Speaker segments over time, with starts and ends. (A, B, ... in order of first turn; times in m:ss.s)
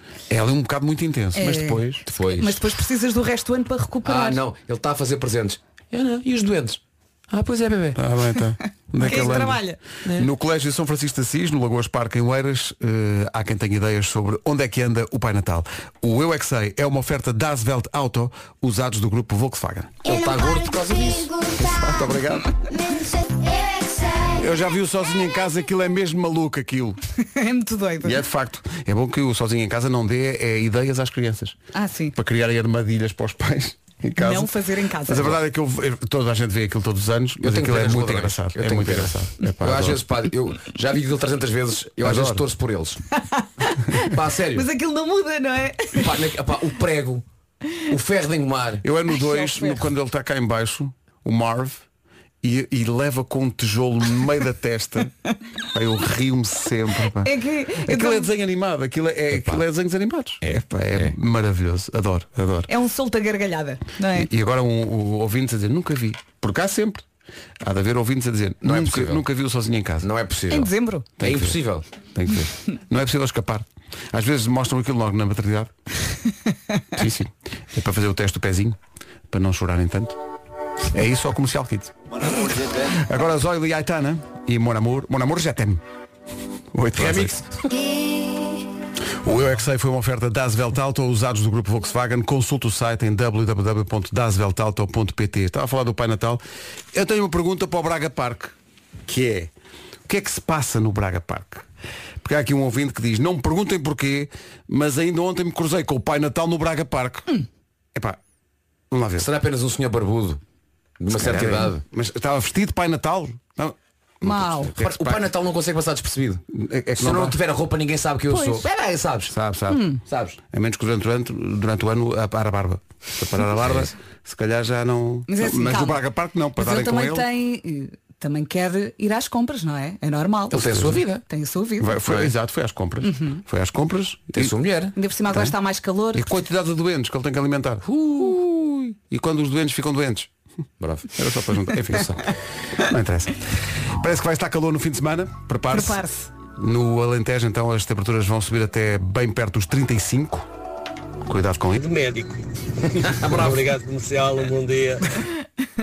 0:00.3-0:02.0 A
0:01.4-0:01.8 B
0:02.1-0:02.6 C
0:02.4-0:04.4 B
0:04.0-0:08.0 C
0:08.0-0:20.0 A
0:09.0-0:09.8 B
0:20.0-0:21.3 C
0:20.1-0:22.0 D
0:21.6-0:22.5 A
0:22.7-0:24.4 D
0:24.4-0:27.0 A
0:27.3-0:28.2 B
0:28.0-0:31.6 A
0:31.7-0:32.2 B
0:32.2-0:34.5 A
0:34.2-0:35.4 B
0:35.1-0:40.0 A
0:37.4-0:43.0 C
0:42.0-0:42.5 A
0:43.2-0:46.1 B
0:44.0-0:44.7 C
0:46.0-0:47.2 C
0:47.8-0:48.8 C
0:48.8-0:51.8 A
0:49.2-0:49.8 B
0:52.4-0:55.1 A
0:55.7-1:02.7 A
0:57.2-0:58.3 B
0:59.4-0:59.6 C
1:00.4-1:01.1 C
1:02.7-1:04.3 B
1:04.1-1:07.0 A
1:07.6-1:10.1 A
1:08.6-1:09.2 C
1:10.0-1:11.8 C
1:10.5-1:11.1 B
1:11.2-1:11.6 A
1:12.2-1:15.7 A
1:17.0-1:18.8 A
1:19.3-1:20.2 A
1:20.9-1:22.0 A
1:22.9-1:25.8 A
1:26.7-1:27.4 A
1:27.0-1:27.7 C
1:29.2-1:36.4 A
1:36.9-1:39.5 A
1:40.1-1:41.7 A
1:42.2-1:47.3 A
1:48.9-1:49.3 A
1:49.2-1:50.4 C
1:51.0-1:51.8 C
1:51.1-1:55.3 A
1:54.2-1:54.7 B
1:54.8-1:56.4 C
1:56.5-1:57.4 A
1:57.0-1:59.3 C
1:59.3-1:59.8 A
1:59.7-2:00.0 B
2:00.1-2:00.4 C
2:00.5-2:07.3 A
2:03.6-2:03.9 C
2:05.3-2:06.0 B
2:06.6-2:10.7 B
2:10.5-2:11.2 C
2:10.6-2:11.0 A
2:11.3-2:12.0 B
2:11.8-2:14.6 A
2:13.0-2:13.4 B
2:14.3-2:15.0 C
2:15.0-2:16.3 B
2:16.1-2:20.3 A
2:17.9-2:18.3 C
2:20.8-2:21.1 C
2:21.2-2:22.2 A
2:21.9-2:22.2 C
2:22.8-2:23.4 A
2:24.0-2:26.0 A
2:25.7-2:26.3 B
2:26.6-2:30.5 A
2:31.3-2:31.9 A
2:31.8-2:32.4 E
2:33.0-2:35.0 E